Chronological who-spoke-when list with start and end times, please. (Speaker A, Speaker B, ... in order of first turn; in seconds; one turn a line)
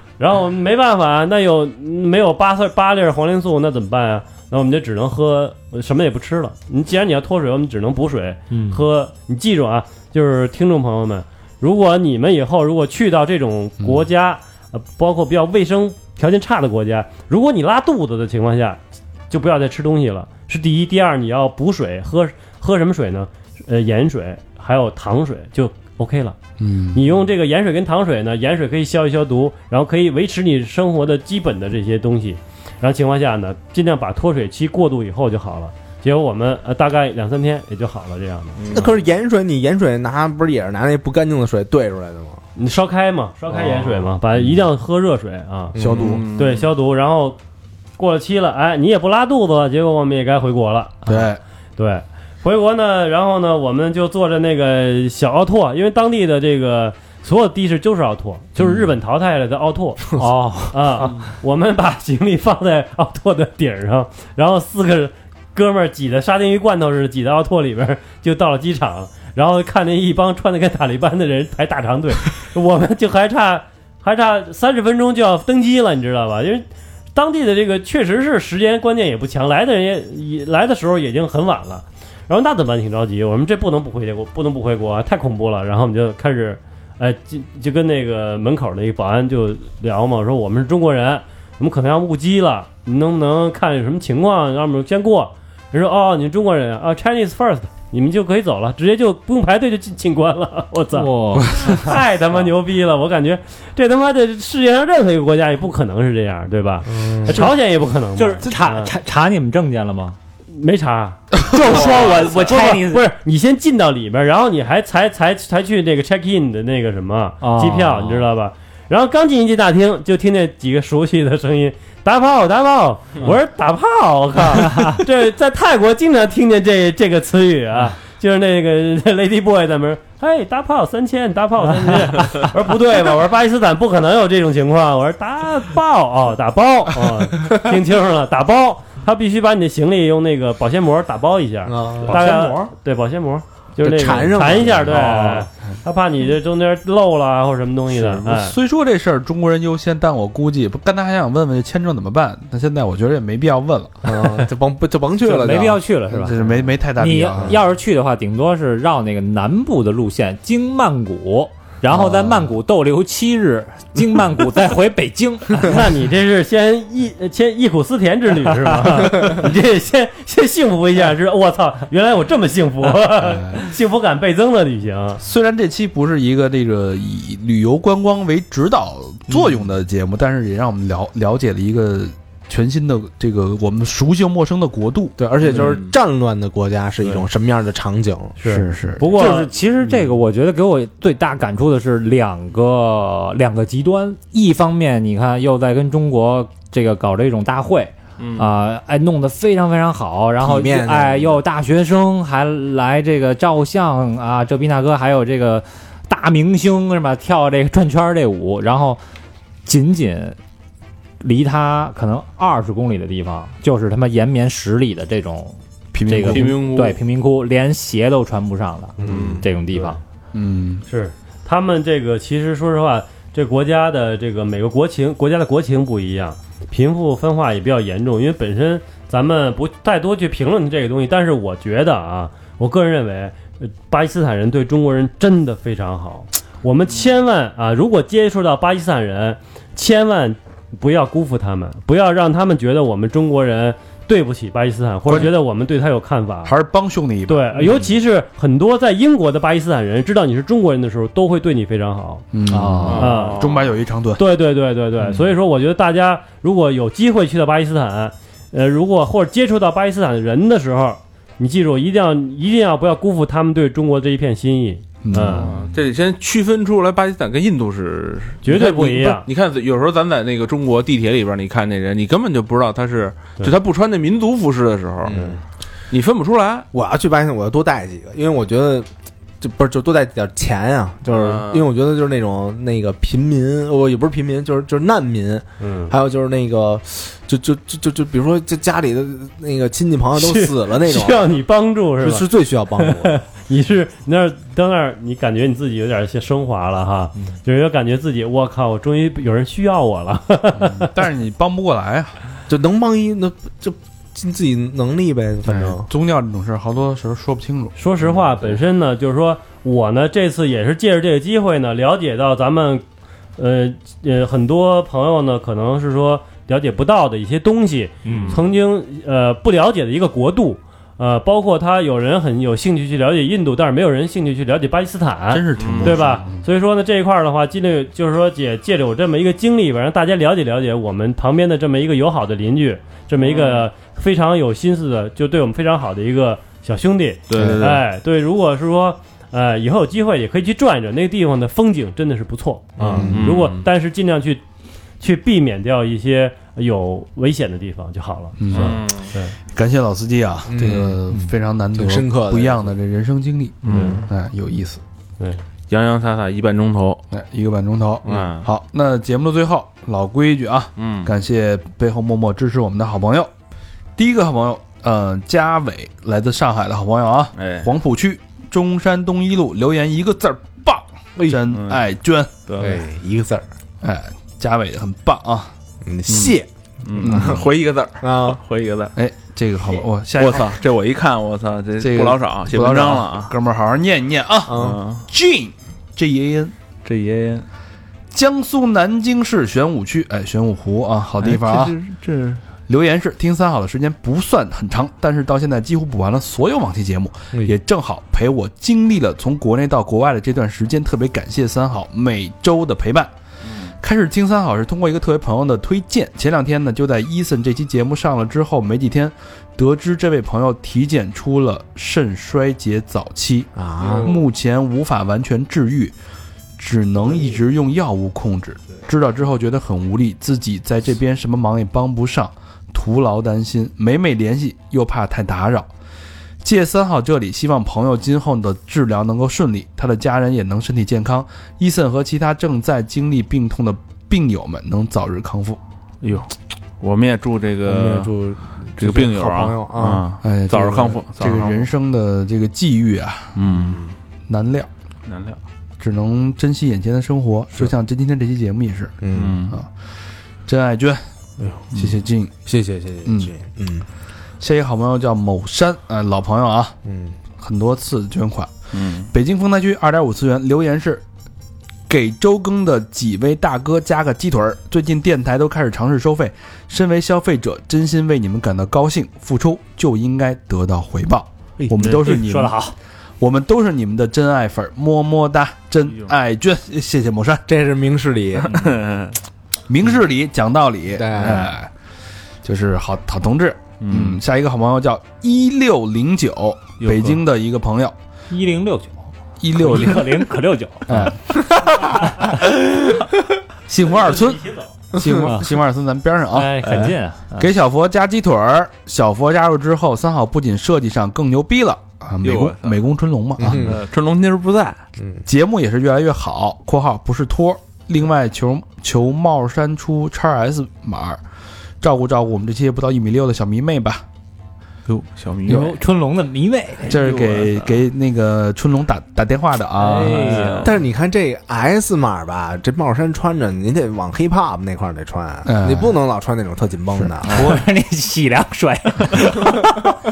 Speaker A: 0.2-26.4
Speaker B: 8.5-8.8
Speaker C: 13.8-14.1
Speaker C: 26.6-27.0
Speaker A: 26.9-38.6
Speaker D: 38.6-39.0
Speaker E: 38.7-42.4
Speaker A: 42.5-45.8
Speaker E: 45.7-46.2
Speaker C: 45.8-46.2
Speaker D: 45.8-46.7
Speaker A: 46.3-47.4
Speaker A: 48.0-51.0
Speaker C: 51.0-51.4
Speaker A: 51.8-60.0
Speaker B: 60.2-61.2
Speaker A: 60.7-108.9
Speaker B: 100.9-102.0
Speaker C: 101.4-101.7
Speaker E: 106.9-107.5
Speaker B: 107.3-107.5
Speaker B: 108.2-110.2
Speaker A: 110.5-148.6
Speaker B: 111.5-113.0
Speaker B: 117.4-118.3
Speaker B: 124.6-125.0
Speaker E: 141.7-142.7
Speaker B: 142.2-142.4
Speaker E: 143.8-145.4
Speaker C: 148.0-154.3
Speaker E: 154.0-156.3
Speaker B: 155.2-156.4
Speaker C: 156.1-157.6
Speaker B: 156.9-165.8
Speaker A: 165.6-175.2
Speaker C: 173.2-173.6
Speaker C: 175.2-185.2
Speaker E: 185.2-188.4
Speaker D: 185.4-185.9
Speaker A: 188.4-189.5
Speaker C: 188.4-189.2
Speaker B: 189.0-209.0
Speaker D: 198.2-198.5
Speaker E: 200.4-201.4
Speaker B: 209.6-210.4
Speaker B: 211.2-220.0
Speaker C: 215.9-216.6
Speaker D: 216.2-217.0
Speaker E: 219.0-219.5
Speaker D: 219.1-219.4
Speaker C: 220.3-220.8
Speaker A: 220.9-246.5
Speaker C: 245.1-245.3
Speaker C: 246.4-247.6
Speaker A: 247.3-252.2
Speaker C: 252.3-254.2
Speaker B: 252.5-253.1
Speaker D: 252.8-253.7
Speaker A: 252.9-253.4
Speaker A: 254.2-265.5
Speaker C: 265.0-265.5
Speaker D: 265.3-275.2
Speaker A: 268.4-269.2
Speaker E: 275.0-275.4
Speaker A: 275.1-275.4
Speaker D: 275.9-276.7
Speaker E: 276.7-278.9
Speaker E: 279.4-291.2
Speaker D: 281.1-281.7
Speaker A: 285.6-285.9
Speaker A: 290.1-292.3
Speaker E: 292.0-293.1
Speaker A: 292.8-300.9
Speaker C: 300.5-302.1
Speaker E: 302.5-305.9
Speaker C: 305.4-307.7
Speaker A: 307.8-312.8
Speaker A: 313.4-344.4
Speaker B: 318.0-318.4
Speaker D: 318.1-318.4
Speaker C: 325.3-326.4
Speaker D: 325.6-326.0
Speaker D: 333.2-333.7
Speaker D: 337.3-337.8
Speaker E: 337.3-337.6
Speaker E: 342.8-343.3
Speaker D: 342.9-343.6
Speaker A: 345.0-349.3
Speaker C: 348.4-348.8
Speaker D: 348.5-349.1
Speaker C: 349.5-354.8
Speaker E: 350.5-351.2
Speaker E: 351.7-352.7
Speaker D: 353.6-354.1
Speaker A: 353.7-354.0
Speaker D: 355.7-357.0
Speaker C: 357.1-363.3
Speaker D: 358.1-358.5
Speaker D: 360.8-361.1
Speaker C: 363.9-372.3
Speaker D: 367.4-367.7
Speaker E: 371.2-371.4
Speaker D: 371.5-371.8
Speaker D: 372.5-372.8
Speaker E: 372.6-373.4
Speaker C: 373.8-375.5
Speaker E: 375.8-376.5
Speaker D: 376.1-378.9
Speaker C: 377.0-377.4
Speaker E: 377.0-377.4
Speaker E: 378.0-378.4
Speaker C: 378.9-380.6
Speaker D: 380.2-383.3
Speaker C: 381.8-386.5
Speaker E: 384.5-384.8
Speaker D: 384.5-385.0
Speaker D: 386.8-387.4
Speaker C: 388.1-391.8
Speaker D: 391.2-392.4
Speaker C: 392.7-403.1
Speaker D: 403.4-403.7
Speaker C: 403.8-415.9
Speaker E: 413.6-414.2
Speaker D: 413.8-414.1
Speaker C: 416.6-425.7
Speaker C: 426.4-435.6
Speaker D: 436.0-438.1
Speaker E: 437.6-440.0
Speaker D: 438.8-441.7
Speaker C: 440.2-443.4
Speaker D: 443.4-443.9
Speaker E: 443.5-443.8
Speaker C: 444.3-444.7
Speaker D: 445.1-445.4
Speaker C: 445.8-448.9
Speaker E: 449.0-449.4
Speaker D: 449.1-449.6
Speaker C: 450.4-451.0
Speaker D: 451.4-452.0
Speaker C: 451.7-452.4
Speaker E: 452.5-453.9
Speaker C: 453.0-453.3
Speaker C: 454.4-456.8
Speaker E: 456.8-457.1
Speaker C: 457.4-458.5
Speaker D: 458.7-459.1
Speaker C: 459.0-461.0
Speaker C: 461.9-472.6
Speaker E: 471.6-471.9
Speaker B: 471.8-472.7
Speaker C: 473.2-477.4
Speaker E: 477.5-478.7
Speaker D: 478.4-479.1
Speaker C: 479.7-481.7
Speaker E: 480.9-481.5
Speaker C: 482.4-487.9
Speaker D: 483.8-484.2
Speaker D: 486.8-487.2
Speaker B: 488.3-491.1
Speaker C: 489.4-490.3
Speaker C: 490.9-491.4
Speaker B: 492.1-492.3
Speaker C: 492.4-493.0
Speaker C: 493.7-496.6
Speaker A: 493.9-494.7
Speaker E: 494.9-495.4
Speaker B: 495.1-495.4
Speaker B: 496.3-497.5
Speaker D: 496.6-496.9
Speaker C: 497.4-503.7
Speaker D: 502.2-502.8
Speaker E: 503.4-503.8
Speaker D: 503.4-504.8
Speaker E: 505.0-505.2
Speaker C: 505.2-511.2
Speaker C: 511.8-514.0
Speaker D: 514.9-515.7
Speaker B: 515.5-517.0
Speaker C: 516.9-520.6
Speaker D: 516.9-517.7
Speaker B: 519.8-520.7
Speaker D: 520.1-520.7
Speaker E: 520.6-527.6
Speaker C: 525.5-526.0
Speaker C: 527.0-527.6
Speaker B: 527.3-530.0